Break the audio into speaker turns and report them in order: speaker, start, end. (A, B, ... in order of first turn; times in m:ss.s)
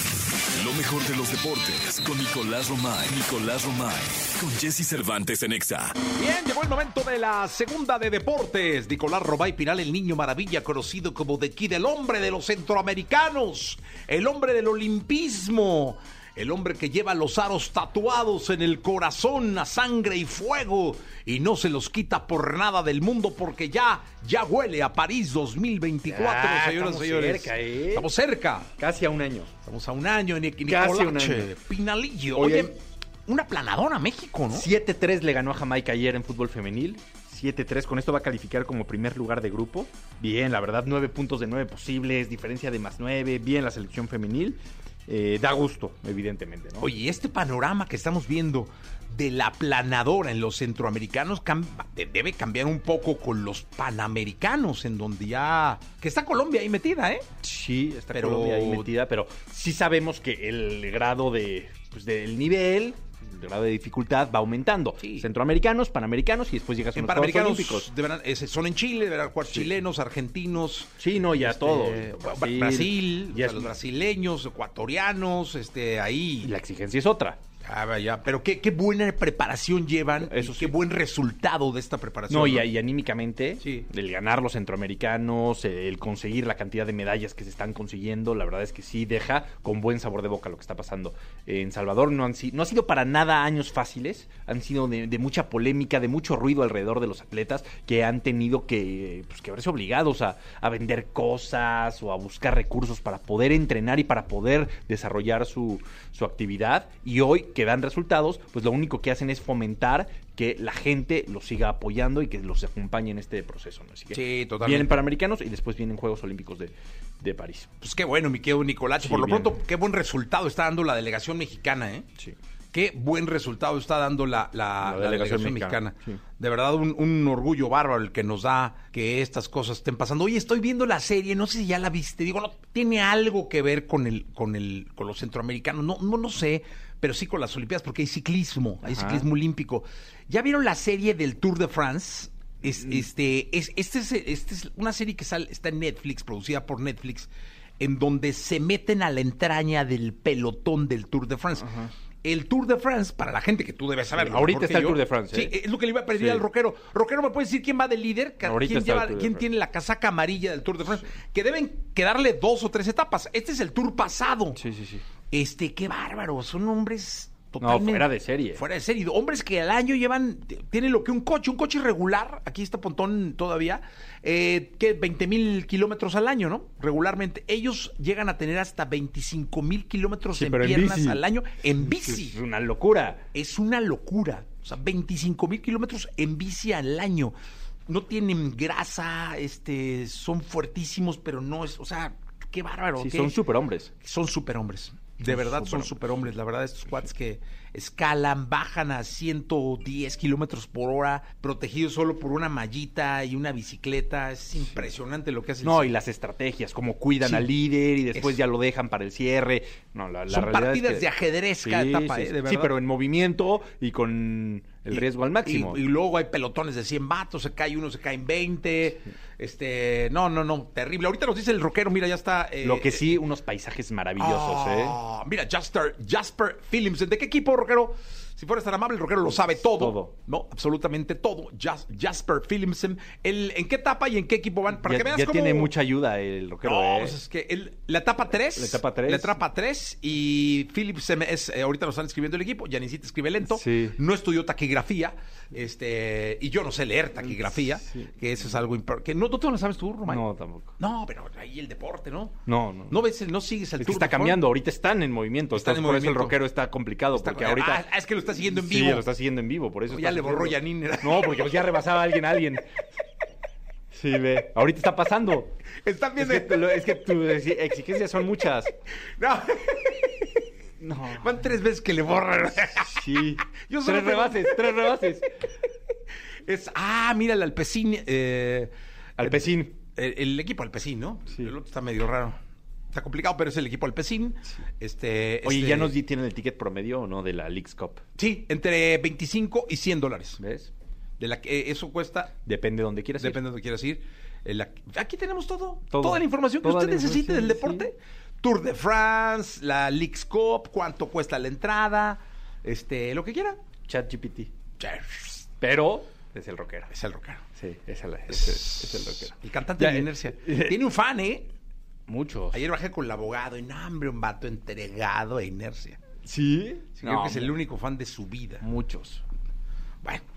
0:00.5-0:06.0 A
0:06.1-0:28.7 B
0:26.0-0:28.1 C
0:28.8-0:29.5 C
0:29.6-0:34.7 B
0:30.6-0:31.5 C
0:32.3-0:32.7 C
0:34.5-0:46.9 C
0:46.8-0:57.2 B
0:57.4-1:07.9 C
0:58.1-0:58.9 B
1:05.0-1:05.2 B
1:06.9-1:16.5 B
1:09.4-1:09.7 C
1:11.0-1:13.7 C
1:16.4-1:17.4 C
1:17.6-1:22.7 B
1:20.2-1:20.7 C
1:22.3-1:57.7 C
1:23.6-1:23.9 B
1:54.1-1:55.0 B
1:57.8-2:02.0 B
1:59.0-1:59.6 C
2:02.7-2:44.6 B
2:04.8-2:06.2 C
2:18.8-2:19.3 C
2:22.6-2:23.0 C
2:31.6-2:31.9 C
2:34.1-2:35.5 C
2:36.1-2:36.4 C
2:38.4-2:39.4 C
2:44.6-2:45.0 C
2:45.3-3:02.4 B
2:47.6-2:48.6 C
3:00.3-3:01.2 C
3:01.8-3:03.2 C
3:03.3-3:07.3 B
3:07.9-3:13.4 B
3:13.0-3:13.9 C
3:14.0-3:25.9 B
3:15.2-3:16.2 C
3:25.6-3:31.1 C
3:27.2-3:27.5 B
3:28.1-3:28.4 B
3:30.3-3:32.7 B
3:31.6-3:35.8 C
3:34.9-3:43.2 B
3:42.6-3:45.0 C
3:44.2-3:55.7 B
3:49.2-3:50.1 C
3:54.7-3:57.2 C
3:56.6-4:10.2 B
3:58.3-3:59.4 C
4:03.4-4:04.0 C
4:07.2-4:08.1 C
4:10.1-4:10.7 C
4:10.8-4:12.4 B
4:12.4-4:13.0 C
4:12.9-4:14.4 B
4:13.8-4:17.8 C
4:15.5-4:16.4 B
4:17.1-4:19.1 B
4:18.4-4:22.7 C
4:19.9-4:21.6 B
4:23.9-4:25.5 C
4:25.8-4:26.5 B
4:26.2-4:28.7 C
4:29.2-4:30.4 B
4:30.8-4:31.5 C
4:31.0-4:33.0 B
4:32.8-4:35.3 C
4:33.7-4:34.9 B
4:36.4-4:42.4 B
4:39.2-4:39.8 C
4:42.9-4:45.9 B
4:45.4-4:48.0 C
4:48.2-4:50.4 B
4:50.4-4:50.7 C
4:51.2-4:52.3 B
4:52.4-4:53.4 C
4:53.2-5:03.6 B
4:55.9-4:57.9 C
5:03.8-5:04.5 C
5:04.8-5:05.4 B
5:05.6-5:06.9 C
5:06.9-5:07.4 B
5:07.5-5:10.8 C
5:08.3-5:11.5 B
5:12.1-5:12.6 C
5:12.5-5:16.0 B
5:16.2-5:17.6 C
5:17.0-5:18.6 B
5:18.6-5:19.2 C